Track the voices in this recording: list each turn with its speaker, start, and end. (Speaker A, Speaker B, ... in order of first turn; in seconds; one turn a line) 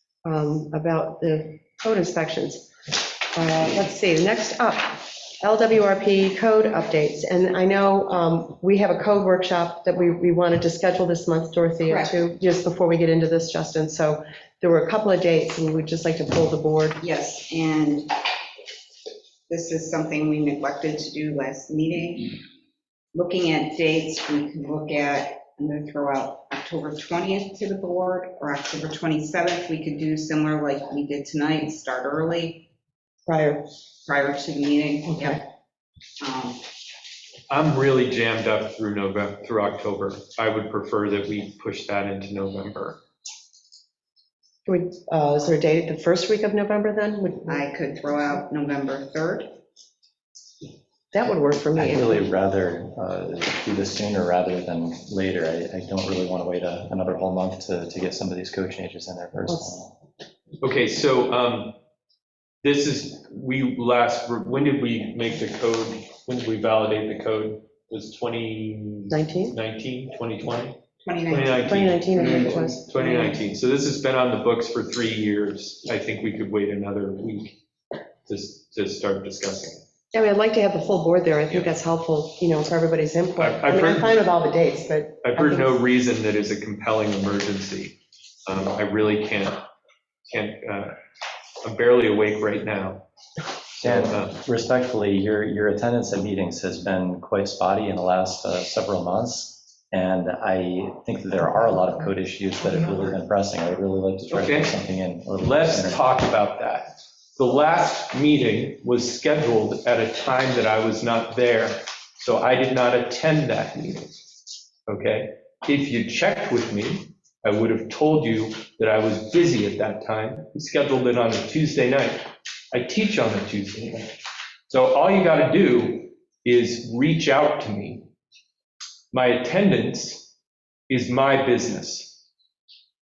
Speaker A: 0.2-2.7
Speaker A: 3.3-17.0
Speaker B: 11.9-12.1
Speaker B: 17.0-18.1
Speaker B: 19.5-22.4
Speaker B: 23.1-32.7
Speaker A: 33.3-33.7
Speaker B: 34.0-35.5
Speaker A: 35.1-35.4
Speaker B: 36.2-36.6
Speaker C: 37.5-43.0
Speaker A: 44.7-47.6
Speaker B: 47.5-49.5
Speaker A: 51.1-52.3
Speaker D: 51.8-59.9
Speaker A: 59.5-59.7
Speaker C: 60.6-61.8
Speaker C: 62.6-70.8
Speaker A: 69.1-69.6
Speaker B: 71.0-72.5
Speaker C: 71.3-77.6
Speaker A: 71.6-72.9
Speaker B: 73.0-73.4
Speaker C: 78.3-79.8
Speaker A: 80.1-85.8
Speaker C: 83.4-84.2
Speaker C: 85.2-89.6
Speaker C: 90.3-91.0
Speaker C: 91.6-93.0
Speaker C: 93.8-94.4
Speaker D: 93.8-106.0
Speaker C: 104.3-104.8
Speaker C: 105.4-114.2
Speaker C: 114.9-124.2
Speaker C: 124.7-128.1
Speaker C: 129.1-130.3
Speaker C: 130.9-132.2